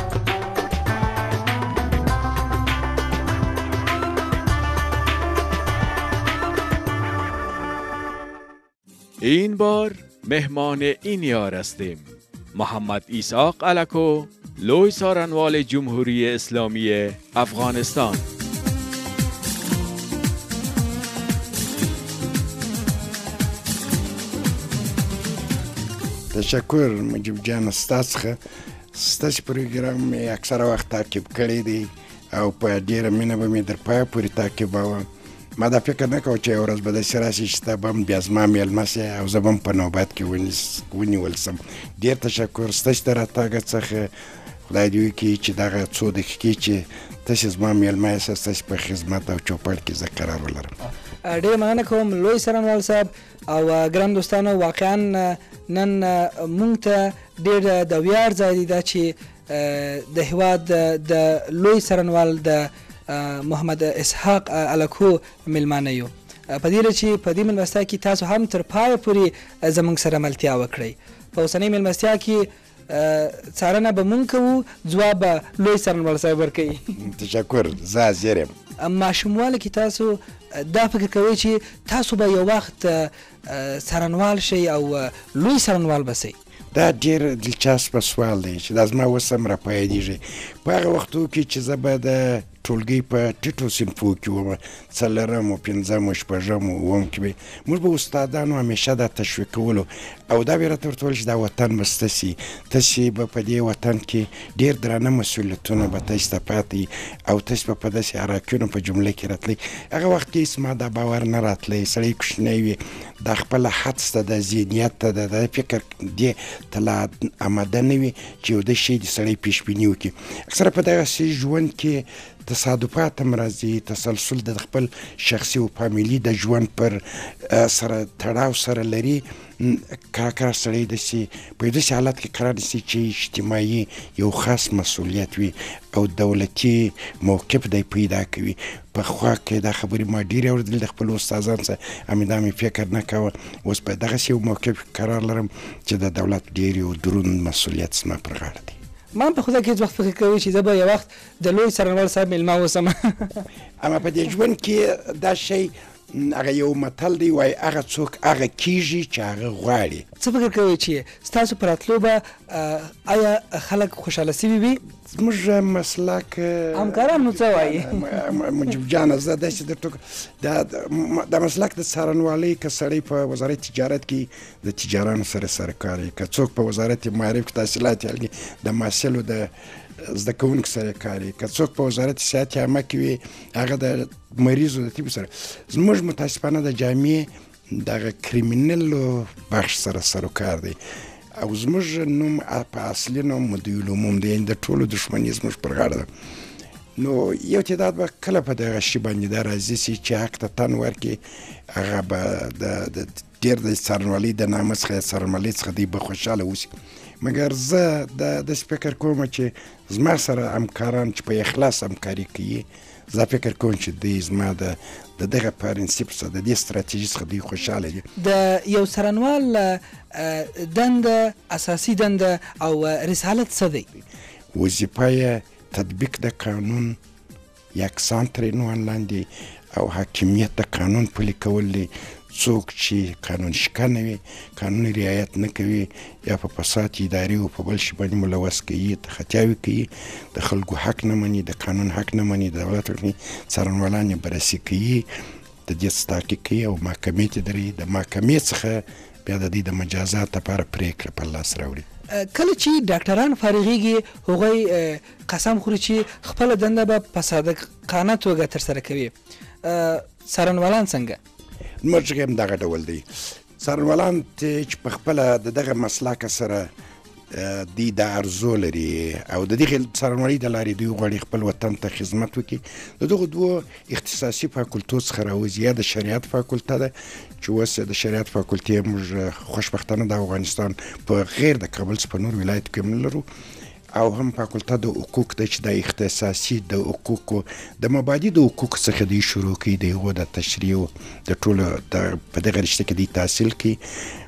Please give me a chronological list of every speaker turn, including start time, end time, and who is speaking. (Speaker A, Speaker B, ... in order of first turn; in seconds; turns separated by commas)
Speaker A: 9.2-18.2, Speaker B: 26.3-28.4, Speaker B: 28.9-44.1, Speaker B: 44.7-50.7, Speaker C: 51.2-77.0, Speaker B: 77.0-78.5, Speaker C: 78.8-86.4, Speaker B: 86.7-148.8, Speaker C: 149.2-153.5, Speaker B: 153.8-160.1, Speaker C: 160.2-164.8, Speaker B: 165.1-190.8, Speaker C: 166.8-168.1, Speaker B: 191.4-196.1, Speaker B: 197.0-218.1, Speaker C: 218.2-223.9, Speaker B: 224.5-227.0, Speaker B: 227.7-245.1, Speaker B: 245.7-251.8, Speaker C: 252.1-259.1, Speaker C: 259.6-261.2, Speaker B: 261.8-263.1, Speaker B: 263.6-266.7, Speaker B: 267.3-283.3, Speaker B: 283.9-293.8